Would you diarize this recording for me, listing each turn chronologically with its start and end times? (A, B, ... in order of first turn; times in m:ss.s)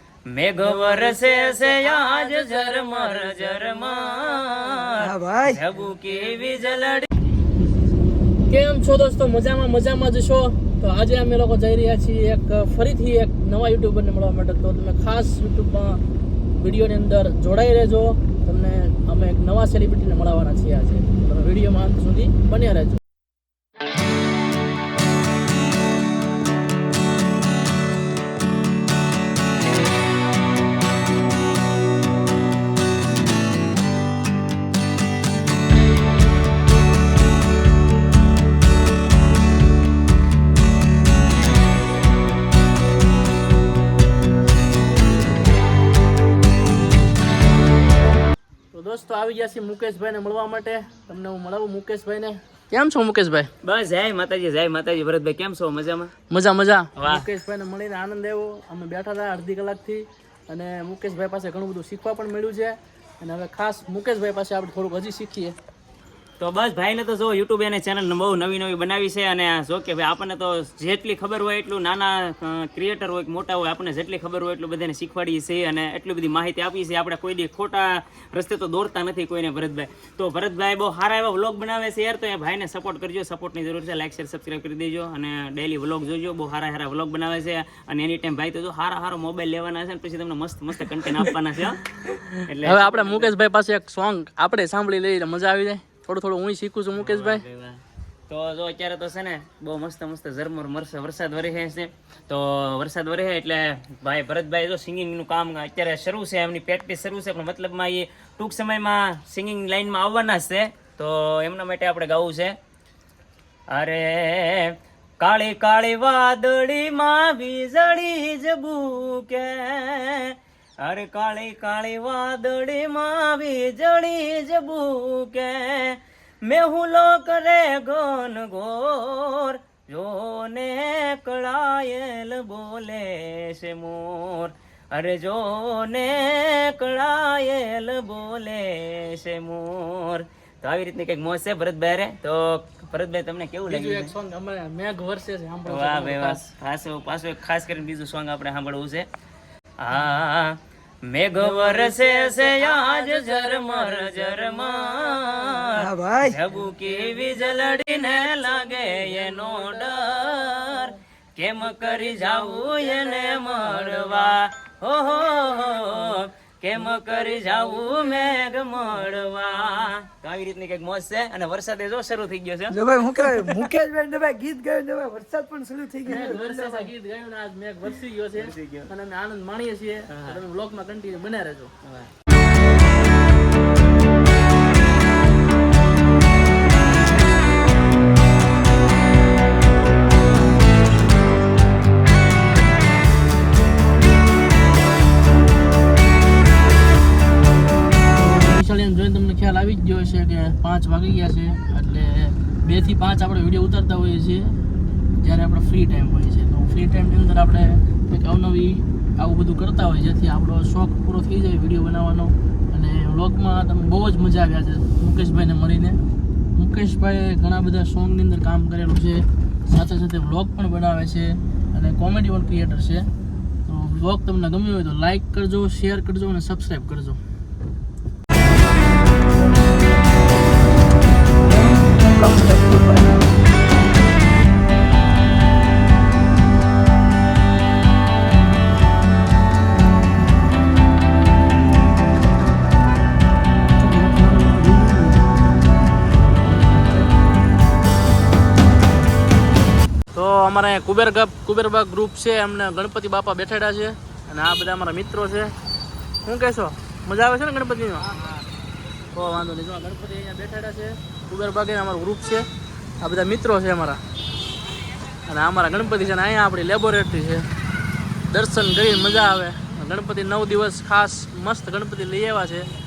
0:00.3-0:07.1 A
0:00.6-0:01.4 B
0:05.0-0:05.6 C
0:08.5-0:16.0 B
0:16.6-0:23.0 B
0:48.7-0:53.5 B
0:53.6-0:56.1 A
0:56.3-1:05.6 B
0:57.0-0:57.2 A
1:06.4-1:31.9 A
1:32.0-1:37.4 B
1:32.4-1:33.3 A
1:36.9-1:52.6 A
1:53.7-2:24.1 A
2:23.7-2:26.4 B
2:25.7-2:29.1 A
2:29.8-2:52.8 A
2:31.6-2:32.6 B
2:35.7-2:36.4 C
2:52.7-2:56.9 C
2:56.0-3:01.7 B
2:58.4-2:58.9 A
3:00.1-3:00.4 A
3:18.1-3:24.6 B
3:25.2-3:36.0 B
3:36.5-3:43.1 B
3:43.7-3:47.2 B
3:51.8-3:53.2 C
4:03.8-4:05.2 B
4:10.1-4:15.5 B
4:16.2-4:18.2 B
4:19.1-4:22.5 B
4:23.0-4:24.0 B
4:25.2-4:27.5 B
4:28.3-4:32.7 B